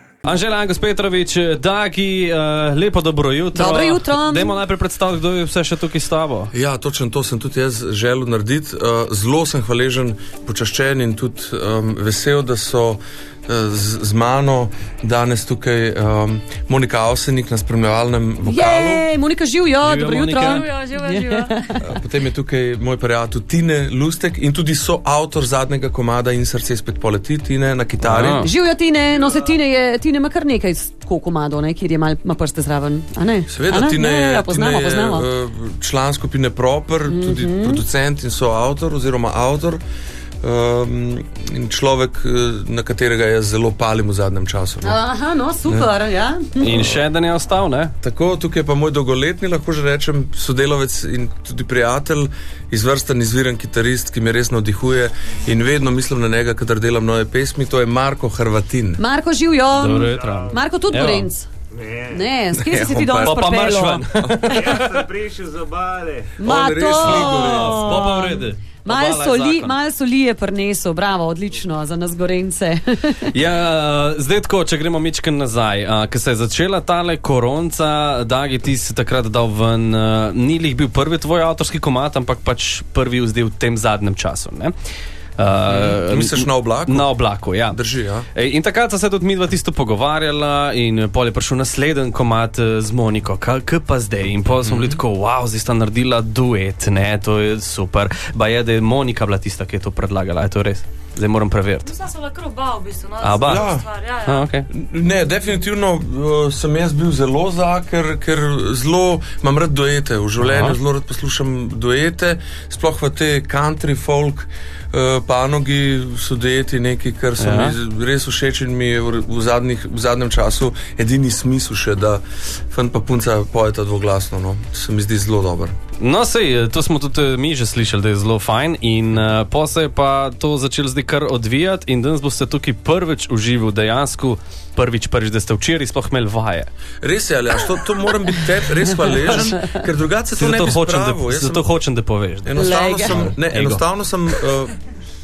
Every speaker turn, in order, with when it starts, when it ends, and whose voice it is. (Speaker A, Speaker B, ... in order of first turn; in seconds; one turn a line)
Speaker A: 0.2-6.5
Speaker B: 3.5-4.5
Speaker C: 6.5-19.1
Speaker B: 18.4-21.9
Speaker A: 19.8-20.6
Speaker D: 20.4-21.8
Speaker C: 21.8-28.4
Speaker A: 28.0-28.5
Speaker B: 28.3-35.3
Speaker C: 33.5-39.8
Speaker B: 37.1-37.8
Speaker C: 40.4-45.0
Speaker B: 44.8-46.9
Speaker A: 46.6-47.9
Speaker C: 46.7-47.0
Speaker C: 48.0-59.0
Speaker B: 59.0-64.8
Speaker A: 59.7-61.3
Speaker E: 60.1-60.4
Speaker C: 62.5-63.4
Speaker A: 63.2-65.2
Speaker C: 64.2-64.5
Speaker E: 64.7-66.3
Speaker C: 66.4-68.0
Speaker B: 66.4-73.3
Speaker A: 67.0-69.8
Speaker A: 73.3-84.7
Speaker A: 85.4-87.8
Speaker C: 85.7-87.1
Speaker C: 87.7-88.3
Speaker A: 88.3-101.9
Speaker C: 94.6-95.0
Speaker D: 101.8-104.5
Speaker A: 103.2-103.7
Speaker C: 103.4-103.8
Speaker A: 104.2-104.7
Speaker C: 104.7-125.8
Speaker A: 110.4-110.8
Speaker A: 117.4-117.8
Speaker A: 126.0-136.7
Speaker C: 137.0-141.6
Speaker A: 140.3-143.8
Speaker C: 142.4-144.7
Speaker B: 142.6-143.2